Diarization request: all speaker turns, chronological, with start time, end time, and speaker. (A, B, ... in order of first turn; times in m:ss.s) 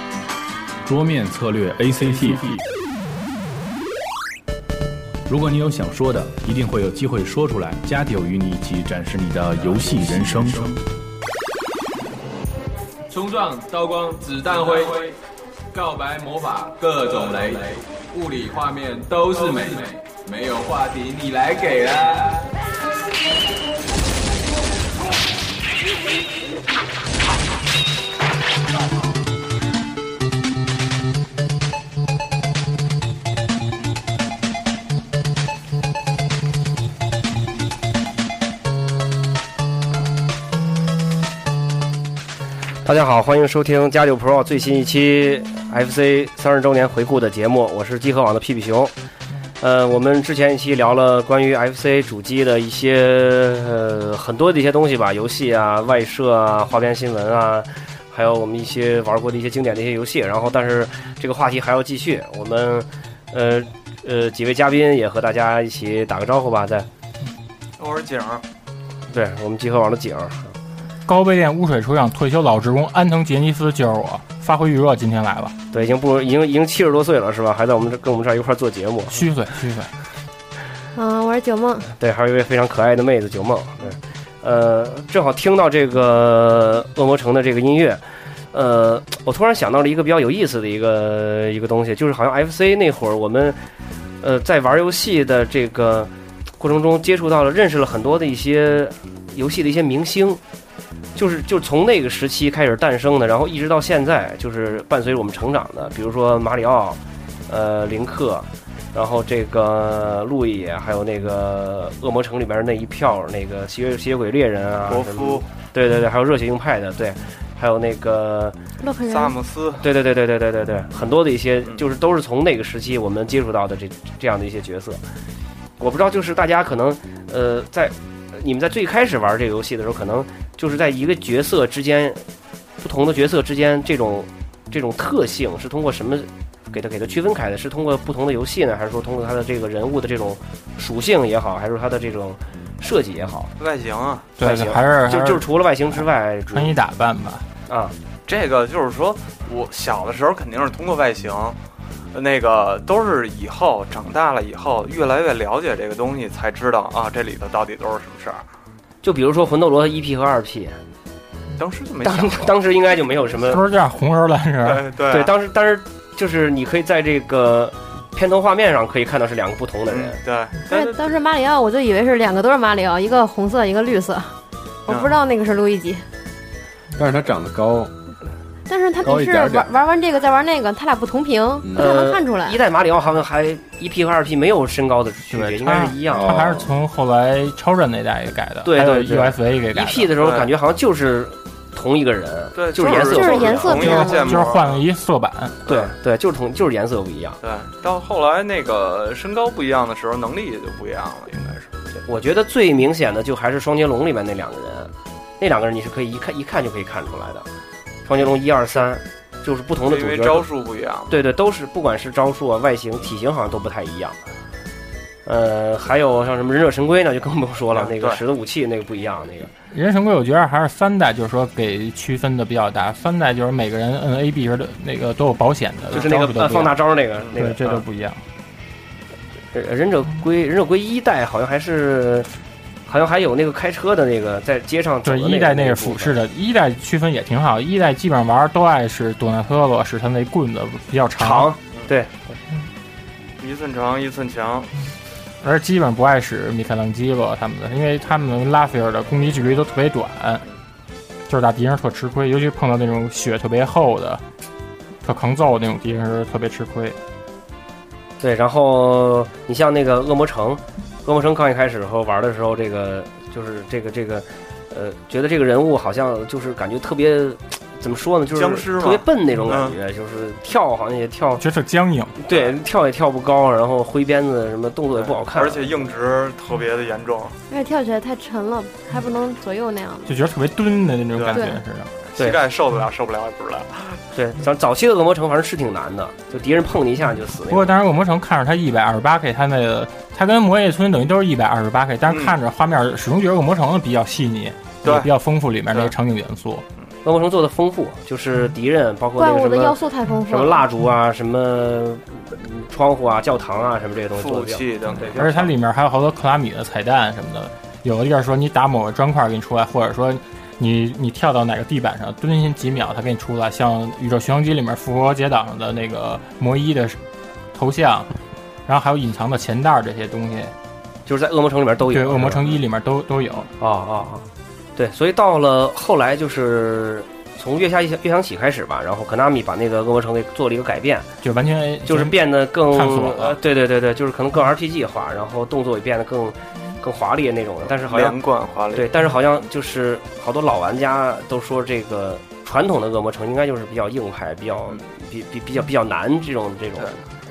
0:00.8-0:02.6 A
0:05.3-0:10.8 A
0:13.1-0:15.2 B
0:15.7-0:22.5 B
0:42.8-0:48.9 C
0:49.6-1:06.9 C
1:07.8-1:08.4 D
1:09.1-1:10.6 C
1:11.1-1:15.6 E
1:15.7-1:19.2 C
1:19.1-1:19.9 E
1:21.0-1:21.9 F
1:21.9-1:28.0 C
1:28.5-1:33.6 C
1:34.2-1:40.4 C
1:41.2-1:58.6 C
1:54.9-1:55.5 D
1:58.8-1:59.4 F
1:59.1-1:59.9 D
1:59.8-2:05.0 C
2:05.8-2:12.2 C
2:12.8-2:23.5 C
2:23.6-2:24.3 D
2:24.4-2:27.5 E
2:24.4-2:26.7 C
2:27.7-2:28.0 C
2:28.3-2:31.6 D
2:32.1-2:38.4 D
2:39.0-2:40.8 C
2:41.6-2:42.6 D
2:42.0-2:43.6 C
2:43.4-2:44.9 E
2:44.6-2:45.3 D
2:45.1-2:50.2 C
2:49.9-2:51.0 D
2:50.7-2:54.4 F
2:54.9-2:56.0 F
2:54.9-2:55.2 D
2:57.0-2:57.9 G
2:58.7-3:02.6 F
2:59.0-2:59.7 G
3:01.8-3:06.6 C
3:05.3-3:10.1 E
3:06.1-3:06.7 G
3:08.6-3:14.0 C
3:10.2-3:10.5 D
3:12.6-3:14.8 D
3:12.8-3:14.5 F
3:13.8-3:15.6 E
3:15.7-3:17.4 C
3:17.4-3:21.7 D
3:21.9-3:27.5 C
3:28.1-3:30.5 C
3:29.8-3:31.1 D
3:31.1-3:34.2 C
3:35.3-3:39.5 C
3:37.7-3:38.2 D
3:39.7-3:46.8 E
3:45.9-3:46.2 D
3:45.9-3:47.8 C
3:47.4-3:48.2 E
3:49.5-3:52.3 C
3:52.9-3:56.2 C
3:55.0-4:01.5 E
4:01.2-4:02.4 C
4:03.4-4:04.7 D
4:05.4-4:10.4 E
4:11.3-4:14.2 E
4:15.0-4:17.0 E
4:18.2-4:31.4 C
4:28.3-4:29.8 D
4:31.4-4:32.2 E
4:32.2-4:35.8 C
4:32.3-4:32.6 D
4:35.0-4:37.4 D
4:37.5-4:40.1 F
4:40.1-4:41.9 E
4:41.2-4:41.4 D
4:41.3-4:41.6 F
4:42.0-4:44.0 D
4:44.1-4:47.7 C
4:47.5-4:56.6 E
4:52.1-4:52.4 D
4:54.8-4:55.1 D
4:57.0-4:59.8 C
4:59.2-5:00.6 F
5:00.3-5:05.1 C
5:04.2-5:05.5 D
5:05.1-5:17.0 E
5:17.5-5:18.1 E
5:18.7-5:20.6 E
5:21.1-5:22.6 C
5:21.9-5:23.5 E
5:23.6-5:31.1 C
5:31.2-5:33.4 E
5:31.9-5:38.2 C
5:37.8-5:38.9 D
5:38.8-5:47.0 C